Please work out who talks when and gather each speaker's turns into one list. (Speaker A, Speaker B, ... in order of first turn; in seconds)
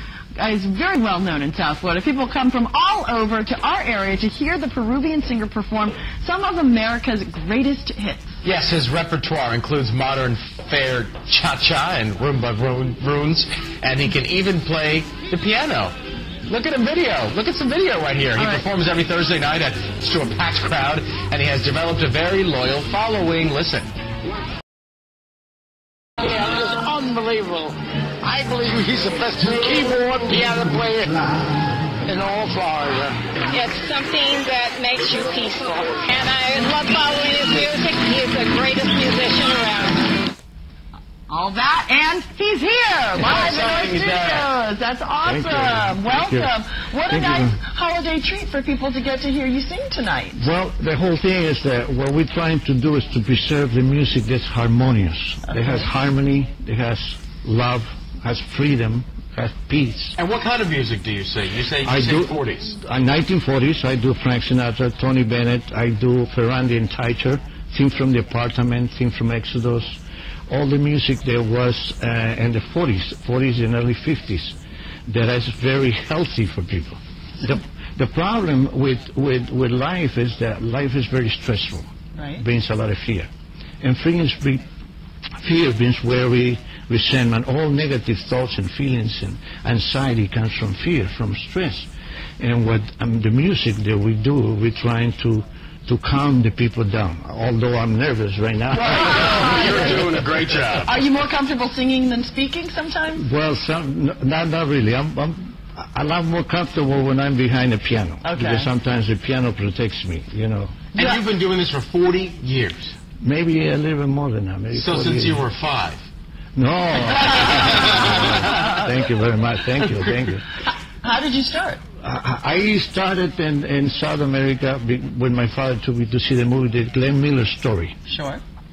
Speaker A: 0.4-8.4, 41.3-50.5, 82.2-82.4, 98.8-100.1, 100.8-103.2, 108.2-108.7, 111.0-111.2, 121.0-121.8, 128.1-128.4
Speaker B: 8.4-15.9, 16.5-23.9, 43.2-44.5, 60.2-62.8, 98.8-100.9, 110.9-112.9, 114.7-116.0, 117.4-118.8
Speaker C: 26.2-33.4
Speaker D: 33.5-40.1
Speaker E: 45.2-46.5, 47.1-47.6, 50.3-60.2, 61.8-70.0, 70.5-74.5, 75.1-83.3, 83.8-84.6, 85.4-100.0, 103.2-110.8, 113.2-115.5, 116.6-120.5, 122.0-128.0